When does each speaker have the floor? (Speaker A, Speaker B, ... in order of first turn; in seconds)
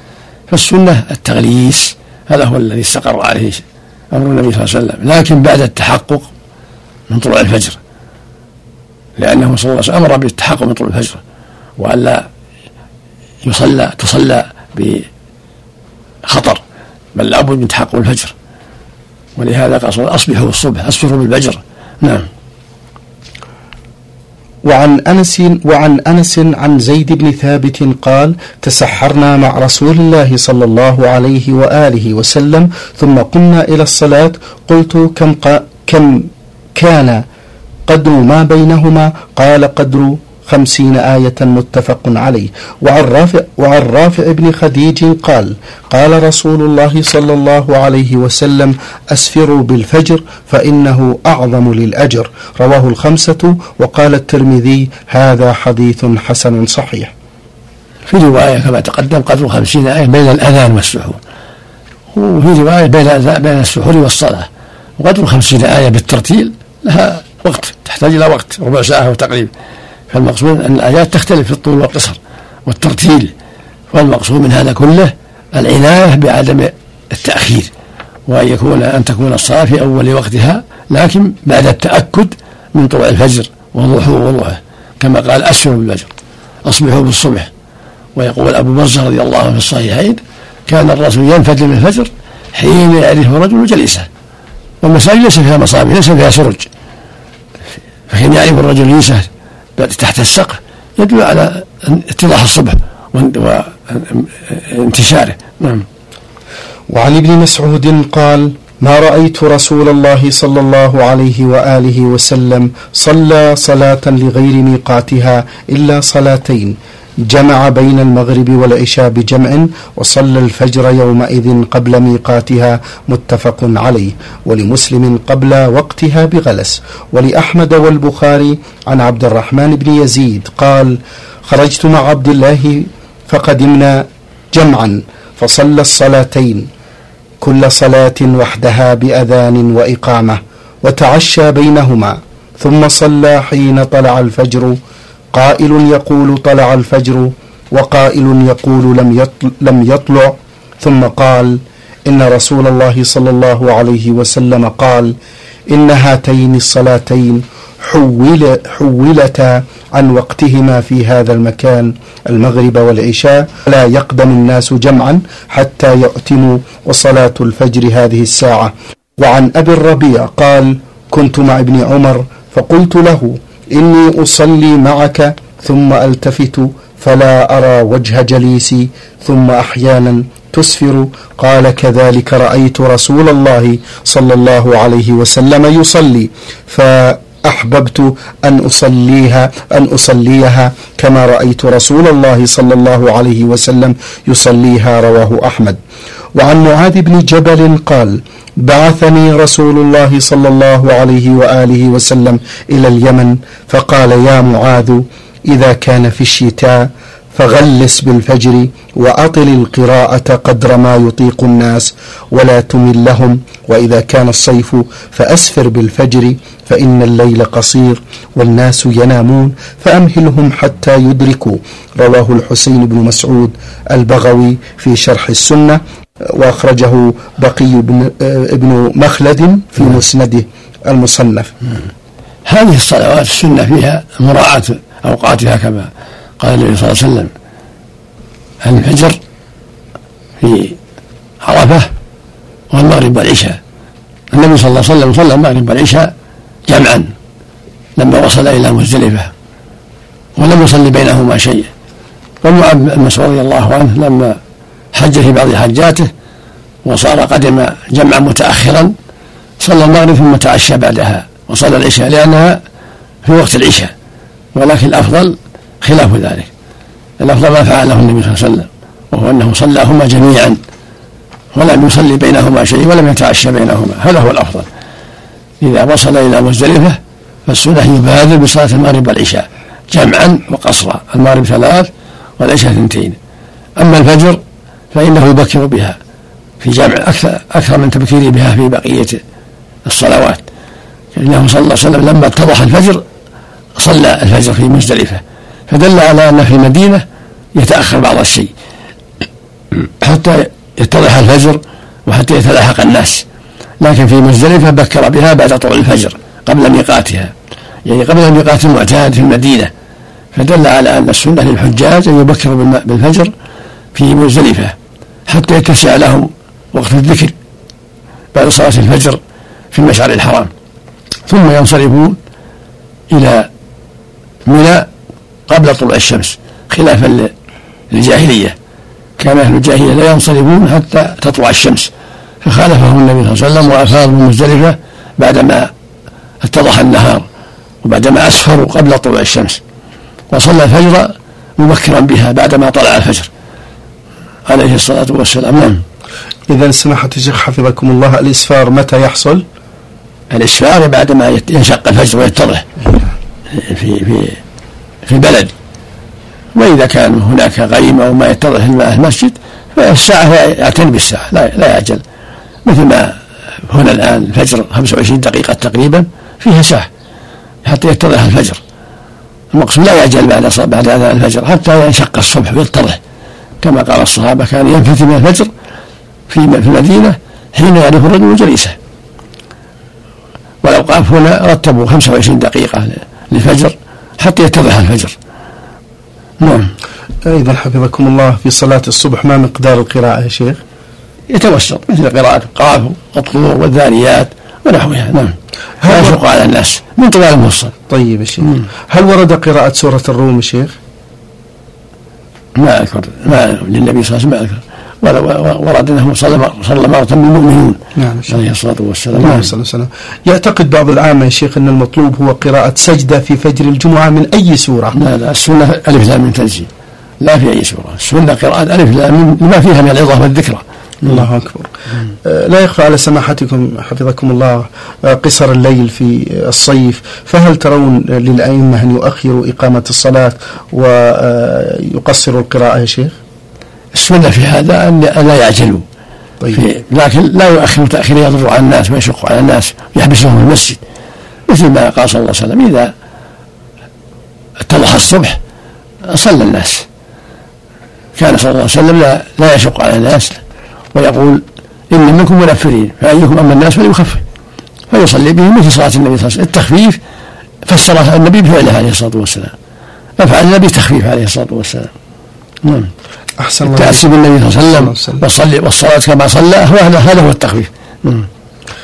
Speaker A: 0.5-6.3, 7.1-7.8, 9.2-11.2, 11.8-12.2, 13.4-15.1, 16.2-16.6, 17.1-18.3, 19.4-22.3, 58.1-61.2, 62.1-69.5, 70.1-73.3, 73.9-77.7, 78.3-86.1, 86.6-87.5, 88.1-94.1, 94.8-96.7, 98.1-105.8, 232.4-237.3, 238.6-239.2, 240.4-240.8, 241.4-241.9, 242.7-243.6, 244.3-246.1, 246.7-247.1, 247.9-249.3, 250.3-251.7, 252.4-254.4, 254.9-256.1, 256.8-258.9, 259.6-262.6, 263.2-263.9, 264.5-266.5, 267.2-270.6, 271.5-274.7, 275.6-283.2, 283.8-284.4, 284.9-286.0, 286.6-289.2, 289.8-290.4, 291.1-293.0, 293.8-298.5, 299.7-303.2, 303.8-307.3, 307.8-309.7, 310.3-313.3, 313.9-314.7, 315.3-317.3, 318.3-319.2, 319.7-320.5, 321.3-322.2, 323.1-323.5, 324.4-324.9, 325.5-327.3, 327.9-328.6, 329.2-331.9, 332.4-335.7, 336.4-337.2, 337.8-339.6, 340.3-343.3, 344.5-345.8, 350.3-352.8, 353.5-354.4, 355.0-355.5, 356.5-362.0, 362.6-366.9, 367.6-368.6, 369.5-373.0, 373.6-375.5, 376.3-378.7, 380.6-385.1, 386.4-386.7, 391.3-397.7, 402.5-409.5, 414.9-416.7, 417.2-421.2, 433.9-435.8, 436.5-440.8, 441.5-442.9, 444.6-445.4, 446.0-446.9, 448.1-450.4, 450.9-454.2, 454.9-457.0, 457.6-459.5, 460.2-461.9, 462.6-462.9, 463.6-468.3
Speaker B: 24.6-37.2, 37.9-57.1, 106.9-116.8, 117.3-136.7, 137.4-144.8, 145.3-155.1, 155.7-195.8, 196.3-231.5, 346.5-349.4, 387.2-390.6, 395.8-396.1, 397.9-400.8, 407.9-408.4, 409.1-415.0, 421.0-433.1, 463.4-464.1, 464.6-465.2